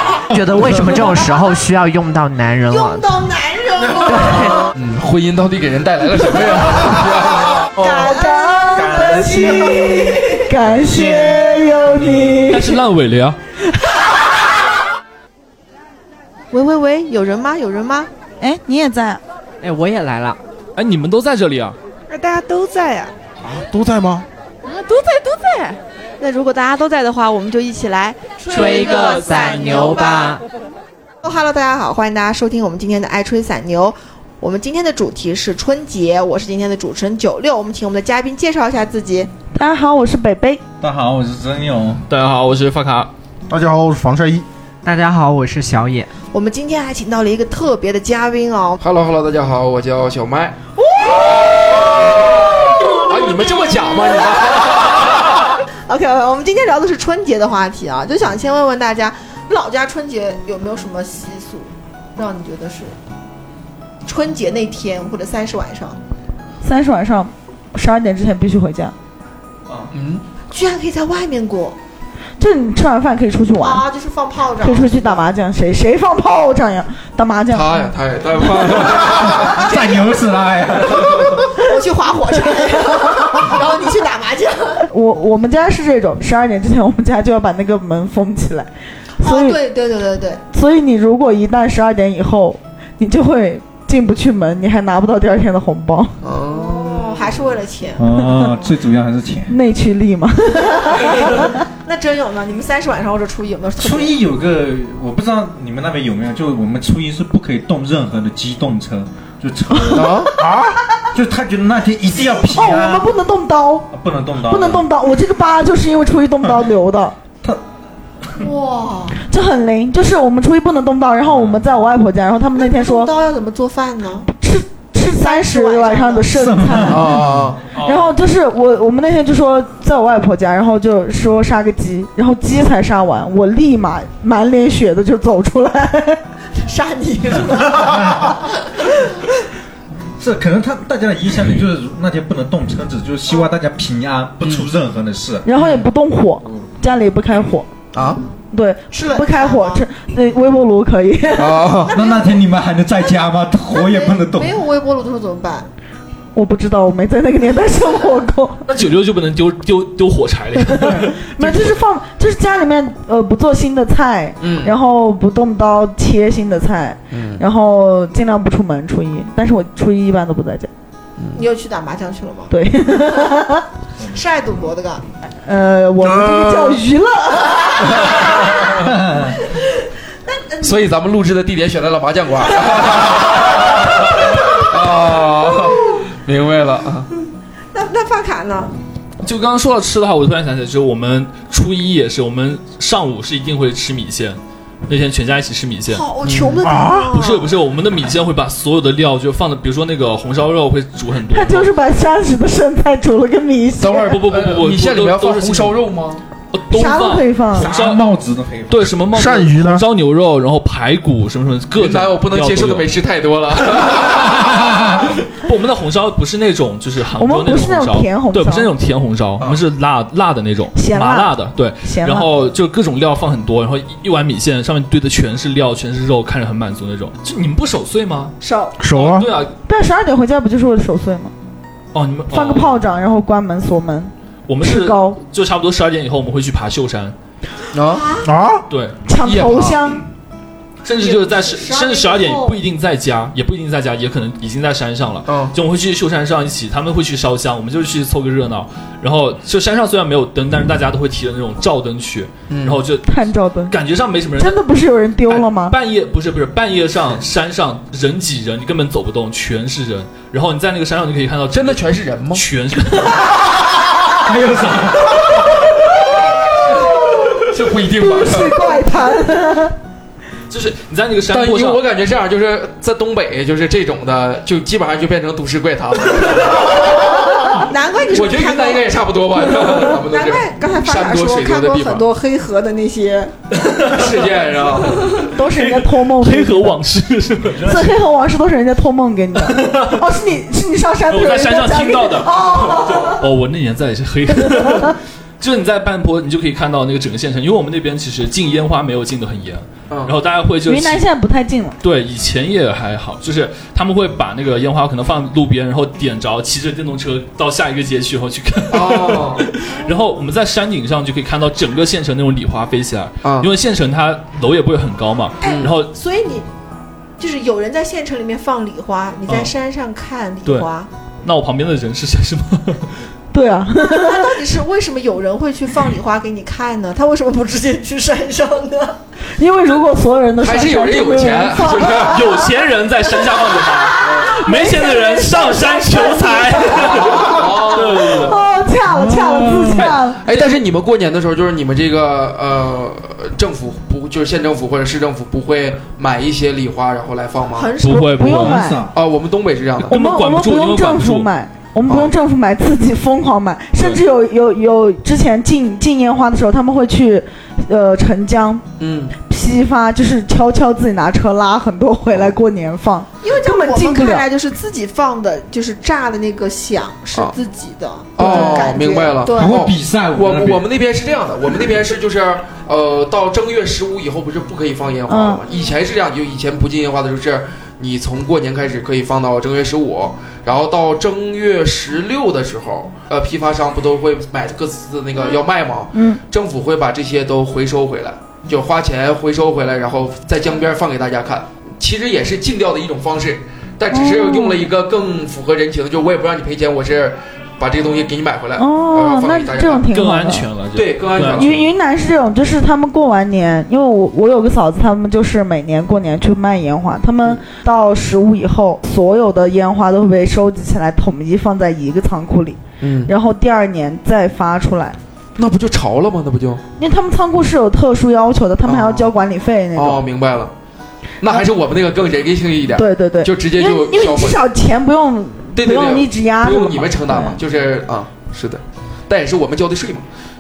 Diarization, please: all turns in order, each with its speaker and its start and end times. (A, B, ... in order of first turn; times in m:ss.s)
0:00.3-0:03.1 A
0:02.7-0:04.5 B
0:04.1-0:04.7 A
0:04.7-0:08.1 C
0:07.7-0:10.5 B
0:07.8-0:12.8 D
0:08.7-0:12.6 E
0:12.5-0:13.4 F
0:16.5-0:18.1 B
0:18.4-0:19.2 D
0:19.6-0:20.4 A
0:20.8-0:21.8 F
0:22.1-0:23.1 B
0:23.4-0:24.3 G
0:24.8-0:30.3 B
0:28.5-0:30.4 A
0:31.2-0:39.3 B
0:39.6-0:40.6 D
0:40.8-0:42.0 E
0:42.1-0:43.1 F
0:43.5-0:44.5 G
0:44.8-0:46.1 A
0:46.3-0:48.8 B
0:48.8-0:50.6 C
0:51.0-0:51.5 B
0:51.3-0:51.9 C
0:52.8-0:54.9 B
0:52.9-0:55.5 C
0:55.9-1:03.0 B
1:04.0-1:06.0 B
1:06.6-1:08.9 D
1:09.9-1:10.2 C
1:10.5-1:11.8 B
1:12.4-1:13.8 D
1:13.6-1:15.3 B
1:14.6-1:17.9 D
1:17.5-1:19.7 C
1:19.1-1:21.4 E
1:21.1-1:24.9 B
1:24.9-1:28.7 D
1:29.2-1:30.4 B
1:29.2-1:29.6 D
1:30.5-1:36.2 D
1:36.2-1:37.4 C
1:36.4-1:38.1 B
1:38.0-1:39.6 E
1:38.2-1:38.5 D
1:39.5-1:41.6 D
1:41.8-1:44.2 B
1:43.8-1:50.3 E
1:49.7-1:50.2 D
1:49.9-1:50.4 C
1:50.4-1:50.8 G
1:51.1-1:53.1 E
1:52.5-1:53.9 D
1:53.9-1:54.8 E
1:54.5-1:57.2 D
1:58.4-1:59.2 B
1:59.3-2:03.1 D
2:02.6-2:04.3 B
2:04.3-2:07.2 D
2:05.1-2:06.5 B
2:06.3-2:07.5 E
2:06.9-2:07.7 C
2:07.8-2:16.2 D
2:07.8-2:08.1 F
2:16.6-2:18.3 B
2:17.8-2:18.3 E
2:20.2-2:25.5 E
2:24.4-2:24.7 C
2:25.4-2:27.7 D
2:25.6-2:25.9 C
2:27.9-2:28.2 C
2:28.5-2:31.7 D
2:28.9-2:29.8 B
2:31.3-2:31.9 C
2:31.8-2:32.4 B
2:31.9-2:34.6 E
2:33.7-2:35.7 B
2:36.4-2:38.6 D
2:38.7-2:41.8 F
2:40.7-2:50.7 D
2:44.4-2:44.8 C
2:47.1-2:47.4 C
2:51.2-2:51.4 C
2:51.3-2:52.5 B
2:52.5-2:53.6 D
2:54.1-2:55.0 B
2:55.4-2:58.3 D
2:58.0-2:58.9 C
2:58.8-2:59.4 E
3:00.3-3:00.8 B
3:00.6-3:07.1 C
3:07.7-3:08.7 B
3:09.2-3:16.1 F
3:15.9-3:17.5 B
3:16.2-3:16.6 C
3:16.6-3:17.1 G
3:17.1-3:21.7 F
3:21.3-3:24.2 D
3:23.8-3:26.2 C
3:24.0-3:25.8 F
3:26.5-3:28.0 F
3:26.7-3:27.7 D
3:27.5-3:29.0 E
3:28.7-3:32.9 F
3:29.1-3:29.8 G
3:31.8-3:34.6 C
3:35.3-3:48.4 F
3:37.2-3:38.7 D
3:40.8-3:42.3 D
3:48.4-3:48.8 B
3:48.8-3:49.3 G
3:48.9-3:49.5 F
3:49.7-3:51.3 D
3:51.9-3:52.8 F
3:52.3-3:55.2 D
3:54.5-3:57.2 F
3:57.7-3:58.1 C
3:57.9-3:58.3 B
3:58.2-3:58.6 G
3:58.7-3:59.0 F
3:59.1-4:00.0 D
3:59.2-3:59.8 C
4:00.8-4:14.6 F
4:00.9-4:02.6 B
4:05.3-4:05.5 C
4:12.5-4:12.9 C
4:13.1-4:13.8 D
4:14.4-4:15.8 D
4:15.3-4:23.4 F
4:21.5-4:22.4 C
4:24.2-4:25.2 E
4:26.7-4:27.4 D
4:27.5-4:28.8 C
4:27.9-4:29.8 D
4:30.5-4:31.8 F
4:31.3-4:42.1 C
4:37.6-4:38.9 B
4:39.9-4:43.3 B
4:43.6-4:44.2 F
4:43.8-4:45.3 C
4:45.0-4:48.0 F
4:45.3-4:46.8 D
4:47.6-4:53.2 D
4:49.4-4:50.0 F
4:51.1-5:01.1 F
4:54.5-4:54.9 D
4:59.9-5:00.2 C
5:00.7-5:01.8 D
5:01.8-5:15.9 F
5:08.7-5:09.5 C
5:09.7-5:10.0 B
5:13.2-5:13.5 C
5:15.4-5:16.5 B
5:15.4-5:15.8 C
5:17.2-5:20.9 B
5:21.2-5:23.0 F
5:23.3-5:24.4 D
5:23.8-5:29.0 B
5:29.4-5:32.4 D
5:30.4-5:32.3 C
5:32.1-5:38.4 F
5:34.0-5:34.3 C
5:34.1-5:35.5 D
5:34.5-5:37.1 B
5:37.0-5:38.3 C
5:38.1-5:40.6 D
5:38.9-5:39.9 E
5:39.7-5:47.8 C
5:47.6-5:48.2 B
5:47.8-5:48.6 F
5:48.1-5:48.9 D
5:48.2-5:48.9 E
5:48.9-5:50.0 C
5:49.8-5:51.3 F
5:49.9-5:58.7 D
5:51.9-5:52.1 C
5:53.8-5:54.0 F
5:58.8-5:59.2 C
5:59.2-6:04.3 D
6:02.1-6:02.4 C
6:03.2-6:09.6 B
6:08.2-6:39.9 C
6:08.2-6:08.8 D
6:09.3-6:10.6 E
6:15.1-6:15.4 D
6:25.9-6:26.2 D
6:33.9-6:34.7 D
6:38.6-6:40.5 D
6:39.9-6:41.7 F
6:40.7-6:41.6 C
6:41.3-6:55.0 D
6:52.8-6:53.1 C
6:55.4-6:56.6 C
6:56.8-7:00.0 D
6:58.6-6:59.1 C
6:59.7-7:00.5 C
7:01.2-7:04.4 C
7:02.8-7:07.4 D
7:05.5-7:10.1 C